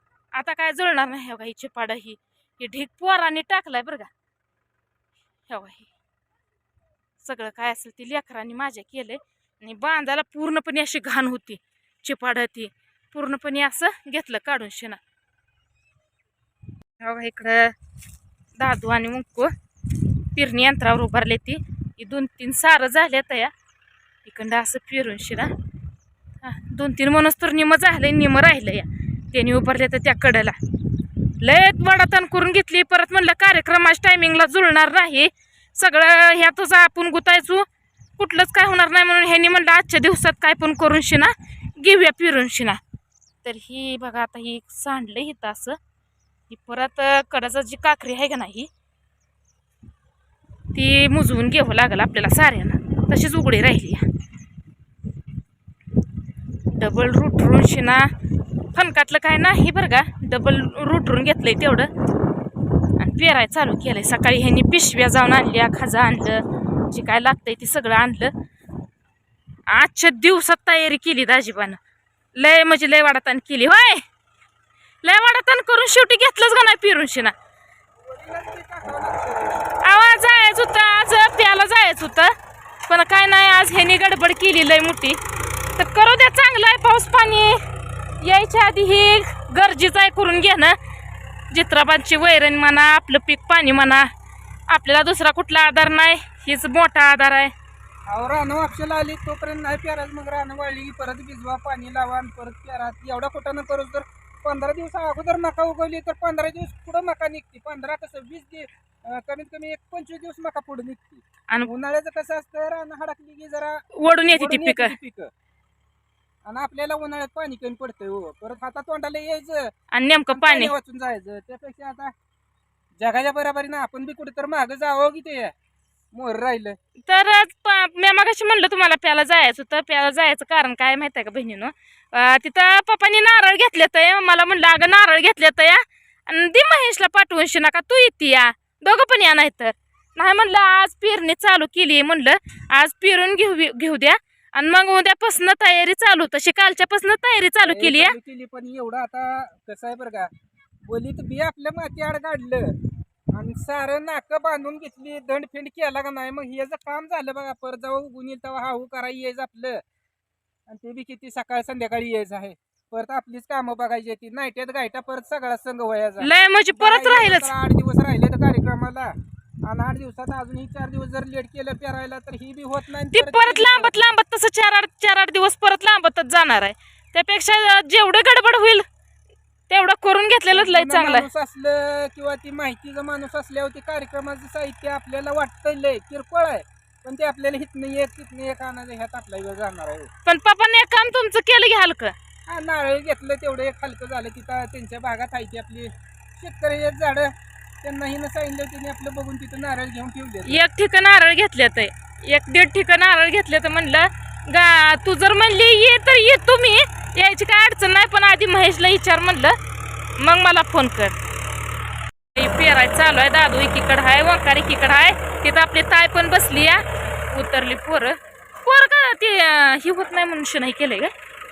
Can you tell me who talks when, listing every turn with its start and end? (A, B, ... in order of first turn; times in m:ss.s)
0:00.3-0:04.1 A
0:05.5-0:05.9 A
0:07.2-0:15.0 A
0:17.0-0:17.8 A
0:18.6-0:23.5 A
0:24.2-0:25.5 A
0:26.4-0:30.6 A
0:31.4-0:37.7 A
0:38.2-0:42.8 A
0:43.4-0:45.8 A
0:46.5-0:48.7 A
0:50.7-0:54.1 A
0:56.7-0:58.2 A
0:58.7-1:01.9 A
1:03.0-1:08.3 A
1:09.7-1:11.8 A
1:12.4-1:14.0 A
1:15.0-1:17.3 A
1:18.1-1:19.7 B
1:19.8-1:22.3 A
1:22.9-1:25.2 A
1:25.8-1:27.6 A
1:28.2-1:30.8 A
1:31.5-1:34.1 A
1:34.7-1:37.5 A
1:38.1-1:55.3 B
1:54.0-1:55.0 A
1:56.4-1:59.7 B
1:59.9-2:00.7 A
2:00.3-2:02.1 B
2:03.0-2:05.5 B
2:06.1-2:06.8 B
2:07.1-2:28.2 A
2:27.6-2:30.3 B
2:30.9-2:32.8 B
2:33.3-2:39.8 B
2:40.7-2:54.2 B
2:46.2-2:47.5 A
2:53.1-2:58.8 A
2:59.7-3:01.3 A
3:00.5-3:10.1 B
3:10.2-3:12.2 A
3:12.5-3:17.3 B
3:17.8-3:20.6 B
3:20.4-3:29.6 A
3:30.2-3:31.2 A
3:32.4-3:41.1 A